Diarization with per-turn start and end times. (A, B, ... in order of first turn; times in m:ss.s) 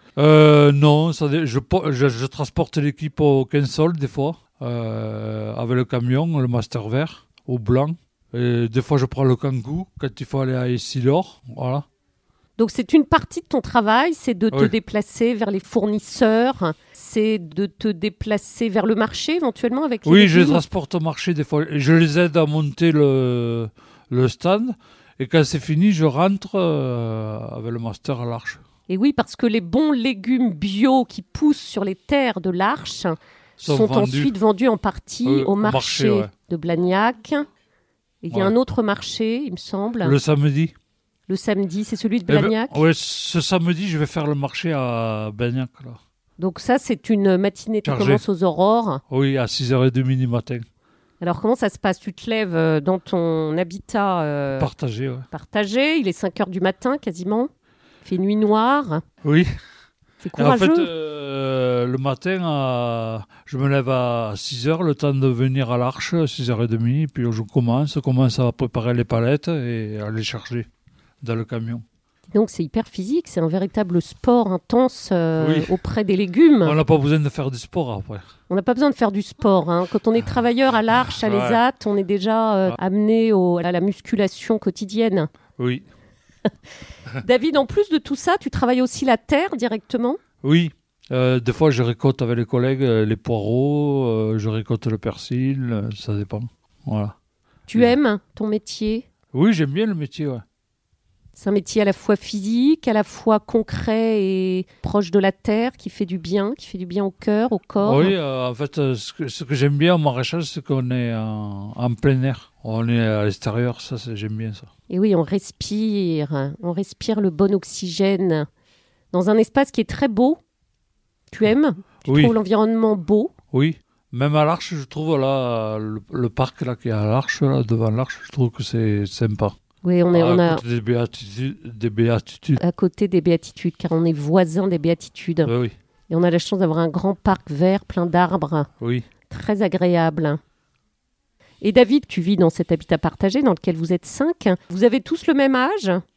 0:00.2-0:11.8 A
0:12.6-0:20.6 B
0:20.1-0:28.6 A
0:28.9-0:37.5 B
0:33.6-0:34.4 A
0:35.2-0:36.3 A
0:38.2-0:40.2 B
0:40.0-0:40.7 A
0:41.3-0:42.8 B
0:42.3-0:46.0 A
0:46.4-0:49.0 B
0:47.9-0:48.2 A
0:49.1-0:50.6 A
0:51.2-0:54.7 B
0:54.6-0:55.3 A
0:55.3-0:57.5 B
0:58.0-0:59.0 B
0:59.2-0:59.5 A
1:00.2-1:00.9 B
1:00.4-1:10.7 A
1:11.2-1:11.8 A
1:12.3-1:16.8 B
1:15.4-1:15.7 A
1:16.6-1:18.3 A
1:18.5-1:25.3 B
1:21.2-1:21.6 A
1:25.6-1:25.8 A
1:27.2-1:30.2 B
1:30.4-1:37.1 A
1:37.7-1:39.1 B
1:39.3-1:40.4 A
1:41.4-1:48.1 B
1:47.8-1:54.7 A
1:54.9-1:58.5 B
1:59.1-2:00.4 B
2:01.3-2:03.3 B
2:02.1-2:02.4 A
2:03.5-2:09.6 A
2:09.8-2:10.6 B
2:10.1-2:12.6 A
2:12.6-2:15.5 B
2:15.4-2:15.8 A
2:16.1-2:18.7 B
2:18.8-2:19.1 A
2:19.3-2:20.4 B
2:21.6-2:26.0 B